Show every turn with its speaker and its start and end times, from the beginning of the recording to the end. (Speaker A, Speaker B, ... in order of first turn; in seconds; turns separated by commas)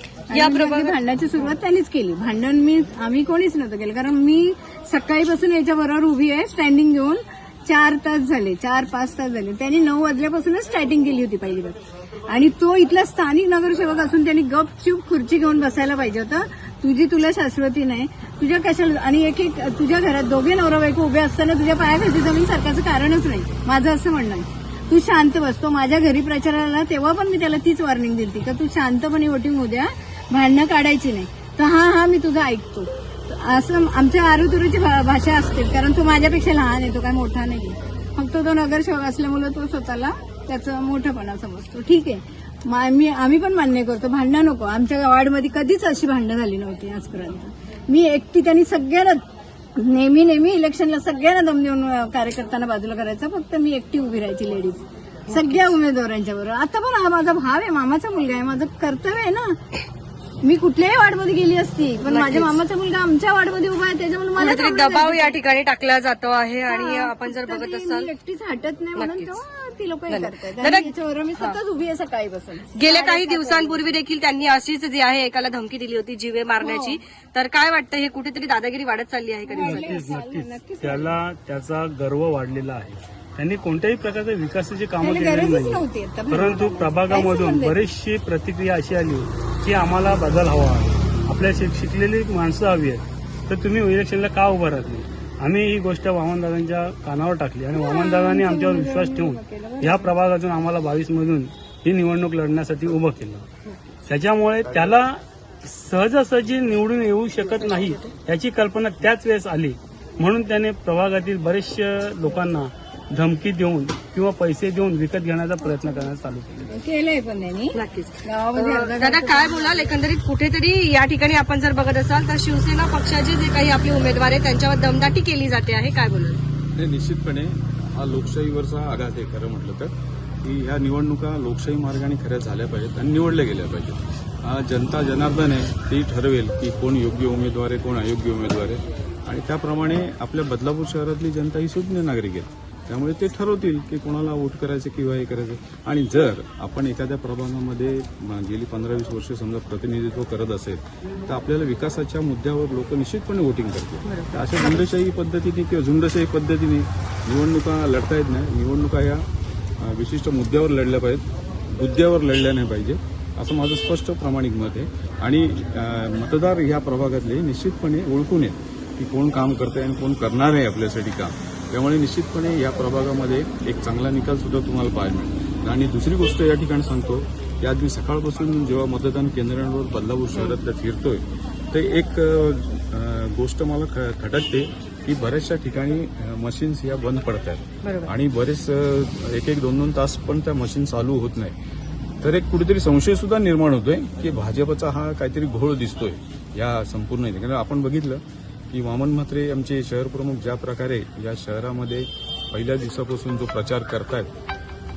Speaker A: 0.3-49.2, Speaker B: 0.3-1.0, Speaker A: 49.8-59.6, Speaker B: 55.3-55.7, Speaker A: 60.4-65.4, Speaker B: 62.1-62.6, Speaker B: 64.4-68.1, Speaker A: 66.7-74.0, Speaker B: 69.0-69.4, Speaker B: 70.1-71.6, Speaker B: 72.7-80.2, Speaker A: 76.6-77.0, Speaker A: 79.5-81.2, Speaker C: 79.6-103.5, Speaker A: 85.0-87.8, Speaker A: 97.7-100.1, Speaker C: 104.0-116.8, Speaker A: 116.7-119.9, Speaker B: 117.7-126.4, Speaker D: 126.8-129.9, Speaker D: 130.4-159.2, Speaker B: 154.1-154.8, Speaker D: 159.8-191.5, Speaker B: 180.3-180.6, Speaker B: 187.8-188.1, Speaker D: 192.2-204.3